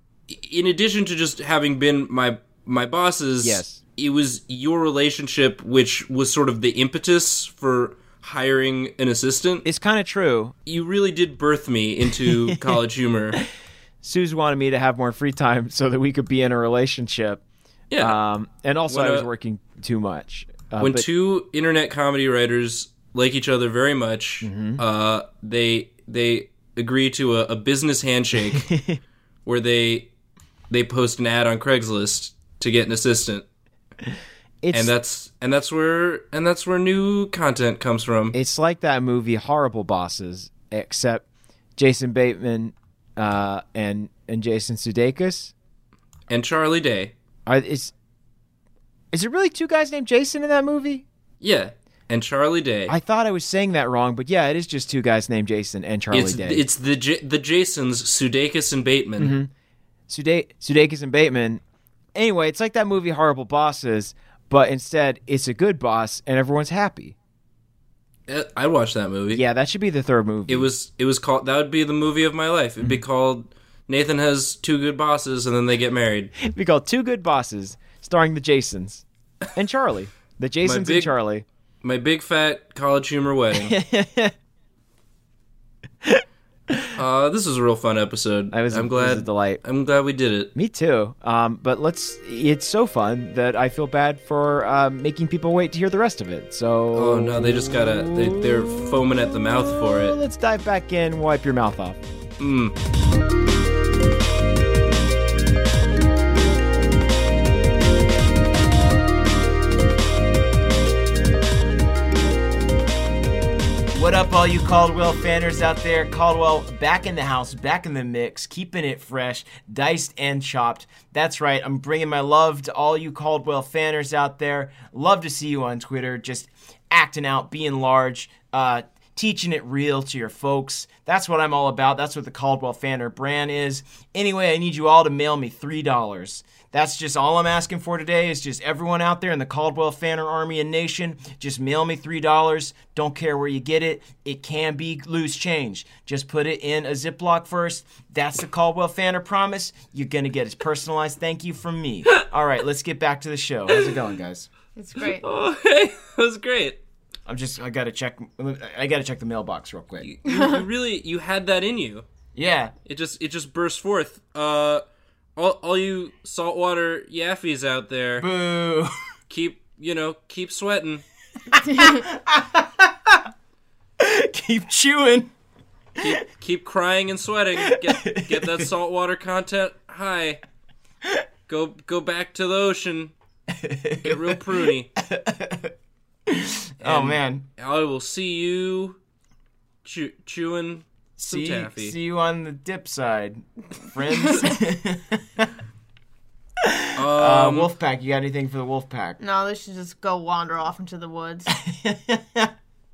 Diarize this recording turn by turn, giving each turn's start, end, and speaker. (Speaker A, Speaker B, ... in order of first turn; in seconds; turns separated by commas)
Speaker A: 0.3-9.6, Speaker B: 3.4-3.8, Speaker B: 9.6-10.5, Speaker A: 10.7-13.4, Speaker B: 12.2-12.8, Speaker B: 14.0-17.4, Speaker A: 17.9-18.2, Speaker B: 18.0-21.1, Speaker A: 18.9-19.3, Speaker A: 20.8-28.7, Speaker B: 24.4-24.8, Speaker B: 28.5-29.0, Speaker A: 29.4-30.1, Speaker A: 30.7-33.4, Speaker B: 34.6-34.9, Speaker A: 34.7-38.4, Speaker B: 38.3-41.2, Speaker B: 41.8-45.5, Speaker A: 46.3-47.1, Speaker B: 47.5-47.9, Speaker B: 49.1-51.0, Speaker A: 51.4-52.9, Speaker B: 52.9-56.6, Speaker A: 56.1-59.4, Speaker B: 59.2-59.5, Speaker B: 60.1-61.6, Speaker B: 62.1-67.2, Speaker A: 68.3-69.4, Speaker B: 69.3-70.7, Speaker A: 70.5-76.3, Speaker B: 76.4-81.5, Speaker A: 80.6-81.1, Speaker A: 81.8-83.7, Speaker B: 83.6-84.3, Speaker B: 86.0-86.9, Speaker A: 86.9-90.5, Speaker B: 88.5-89.6, Speaker B: 90.5-102.0, Speaker A: 96.9-100.2, Speaker A: 102.4-102.7, Speaker B: 113.9-154.5, Speaker A: 153.7-154.0, Speaker C: 154.8-155.2, Speaker A: 155.1-156.8, Speaker B: 157.3-160.1, Speaker A: 160.0-162.1, Speaker C: 160.3-160.6, Speaker B: 162.3-162.7, Speaker A: 162.8-164.8, Speaker A: 165.3-168.3, Speaker B: 168.2-168.9, Speaker A: 169.3-171.0, Speaker B: 171.5-173.3, Speaker C: 171.6-172.0, Speaker B: 174.0-175.3, Speaker A: 176.0-180.4, Speaker B: 177.6-178.7, Speaker A: 181.5-183.1, Speaker B: 183.5-185.7, Speaker A: 184.0-184.9, Speaker B: 186.3-187.4, Speaker A: 186.8-189.0, Speaker A: 189.8-191.9, Speaker B: 191.2-195.5, Speaker B: 196.6-199.2, Speaker A: 196.9-197.7, Speaker C: 199.2-201.5, Speaker B: 201.5-202.5